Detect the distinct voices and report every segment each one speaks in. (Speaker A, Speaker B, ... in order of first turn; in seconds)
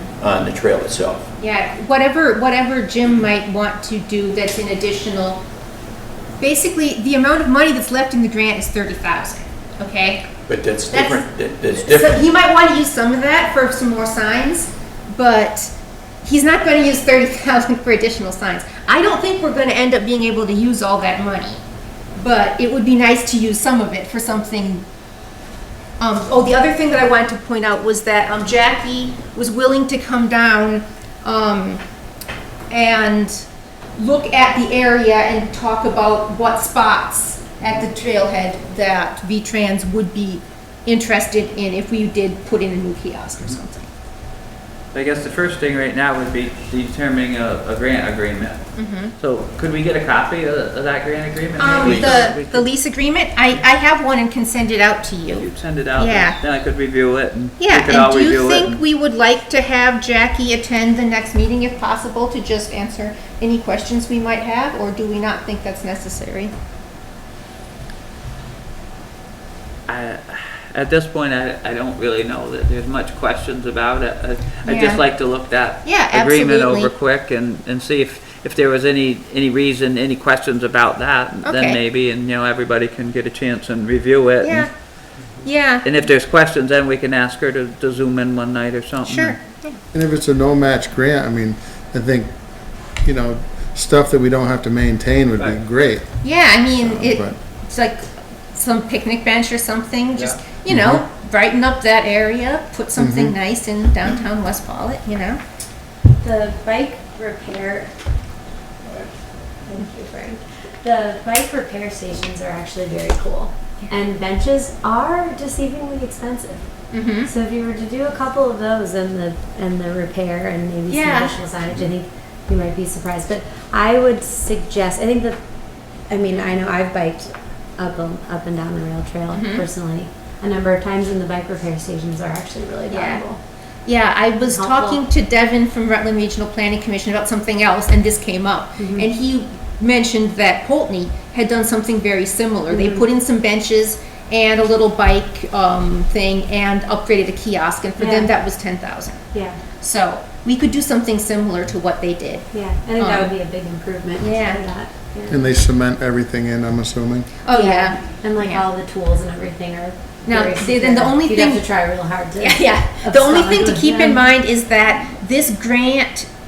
Speaker A: 0.2-1.3, 10.5-12.3
Speaker B: 1.4-5.4, 6.4-10.3, 10.9-21.6, 22.2-24.9, 26.0-31.8, 32.7-33.5, 34.0-43.9, 48.8-49.1, 51.6-56.4, 57.6-66.5, 74.7-75.0, 75.8-76.9, 81.5-81.8, 84.4-84.7, 85.4-85.9, 89.0-89.8, 96.2-105.4, 116.9-117.3, 120.9-121.4, 129.3-129.7, 132.9-133.2, 133.9-149.3, 149.8-153.3, 154.2-154.6, 157.5-158.6, 160.3-161.7, 162.4-166.3
Speaker C: 44.9-52.7, 55.3-58.8, 69.9-84.7, 85.8-89.4
Speaker D: 89.9-92.3, 92.9-96.2, 96.8-97.3, 100.7-101.0, 103.0-103.4, 155.3-157.3
Speaker E: 106.2-107.9, 109.7-116.7, 117.2-125.4, 126.1-133.4, 134.4-135.0, 138.8-139.1, 142.7-143.1, 148.0-148.3, 149.3-149.6, 152.5-155.6, 157.5-164.3